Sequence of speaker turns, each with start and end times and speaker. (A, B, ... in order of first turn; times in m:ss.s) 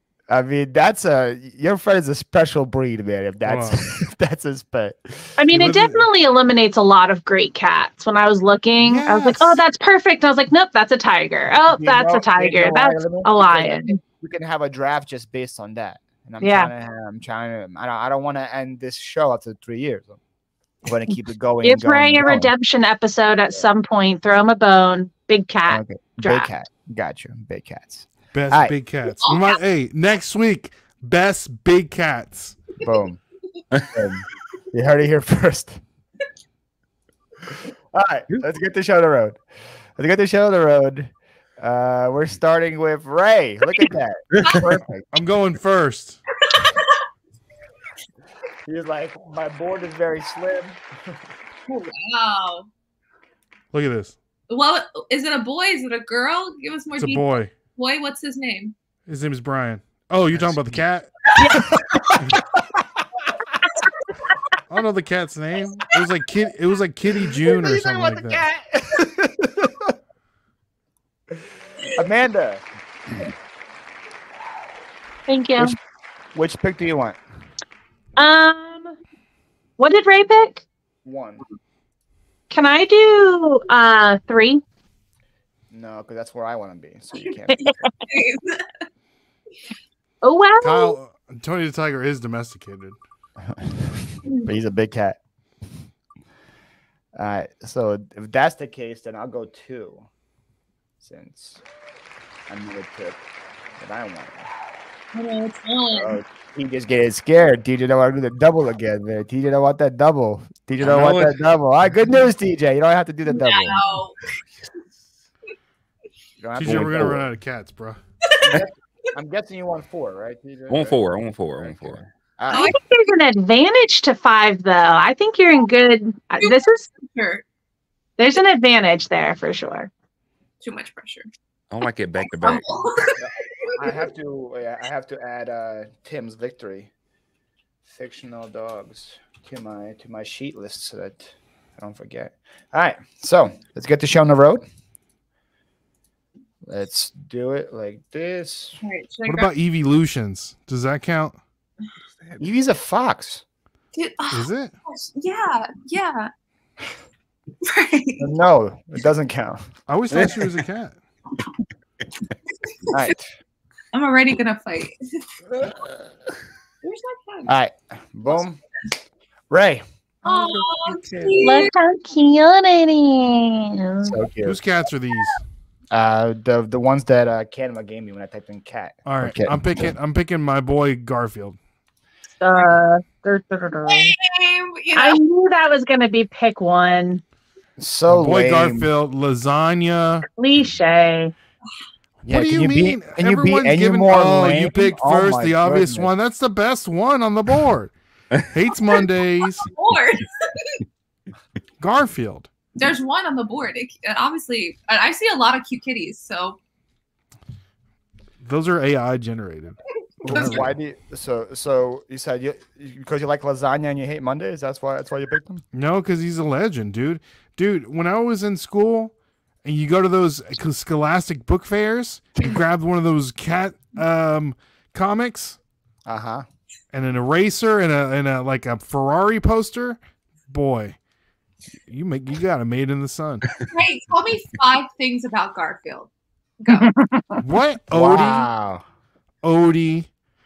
0:00.3-0:05.4 A
0:03.5-0:03.8 B
0:05.4-0:14.0 C
0:05.5-0:06.0 B
0:08.8-0:09.6 B
0:11.7-0:20.2 A
0:16.4-0:16.7 C
0:20.8-0:22.5 A
0:21.6-0:26.5 C
0:25.7-0:28.8 A
0:28.3-0:32.6 B
0:29.2-0:29.6 D
0:32.8-0:33.2 A
0:33.9-0:35.8 A
0:37.9-0:39.4 A
0:40.0-0:45.1 A
0:44.4-0:44.6 E
0:45.1-0:46.2 B
0:46.5-0:46.9 D
0:48.7-0:50.8 A
0:51.7-0:52.7 D
0:53.7-0:54.1 B
0:54.5-0:58.8 D
0:57.0-0:57.5 B
0:59.1-1:01.1 B
1:00.3-1:00.8 A
1:01.4-1:01.6 C
1:01.6-1:02.4 A
1:02.2-1:02.4 B
1:04.7-1:08.4 B
1:07.4-1:09.9 A
1:11.9-1:12.6 A
1:15.3-1:15.8 C
1:16.3-1:17.2 A
1:18.2-1:19.0 C
1:19.8-1:20.6 C
1:21.0-1:21.4 A
1:22.5-1:24.6 C
1:25.7-1:27.9 A
1:27.6-1:28.9 D
1:30.2-1:31.0 C
1:30.6-1:33.0 B
1:33.4-1:35.2 A
1:37.2-1:40.0 A
1:41.0-1:41.6 A
1:42.5-1:43.2 A
1:43.8-1:44.5 A
1:45.1-1:46.2 D
1:45.9-1:53.8 A
1:50.8-1:51.4 E
1:53.3-1:54.2 D
1:56.4-1:57.3 A
1:56.6-1:58.0 B
1:58.3-1:58.6 D
1:58.4-2:01.0 A
2:00.7-2:02.0 E
2:01.6-2:02.8 A
2:02.5-2:02.8 D
2:02.5-2:06.8 C
2:06.4-2:07.4 D
2:08.2-2:09.9 C
2:10.6-2:11.3 D
2:11.7-2:12.9 E
2:12.4-2:14.0 D
2:13.2-2:16.9 A
2:17.9-2:24.6 A
2:26.6-2:28.8 A
2:28.8-2:29.6 D
2:29.3-2:31.4 B
2:32.4-2:33.4 A
2:34.0-2:36.3 D
2:34.3-2:34.7 B
2:37.6-2:38.3 D
2:38.2-2:39.7 A
2:39.9-2:41.0 B
2:40.1-2:40.7 E
2:42.7-2:43.1 D
2:42.9-2:43.3 A
2:43.9-2:45.0 D
2:46.8-2:47.5 D
2:47.5-2:48.6 A
2:49.5-2:49.8 A
2:50.2-2:51.7 D
2:50.2-2:50.6 C
2:50.8-2:51.6 E
2:51.4-2:54.2 C
2:54.0-2:54.6 A
2:54.4-2:55.4 B
2:55.9-3:00.0 A
2:59.1-3:01.6 B
3:02.4-3:04.2 C
3:03.9-3:05.2 D
3:05.0-3:07.2 C
3:07.8-3:08.9 A
3:08.1-3:10.3 B
3:10.4-3:11.3 C
3:12.2-3:17.9 B
3:12.3-3:16.1 A
3:18.5-3:19.7 B
3:18.9-3:20.8 D
3:21.8-3:22.5 B
3:22.8-3:26.6 D
3:28.4-3:30.7 B
3:30.2-3:35.6 A
3:30.3-3:30.6 D
3:35.7-3:39.1 B
3:39.6-3:45.6 B
3:46.1-3:46.5 A
3:46.9-3:51.0 B
3:51.9-3:53.5 B
3:53.7-3:56.9 D
3:56.7-3:57.4 C
3:57.4-3:58.5 B
3:57.9-3:58.8 A
3:59.4-4:00.1 B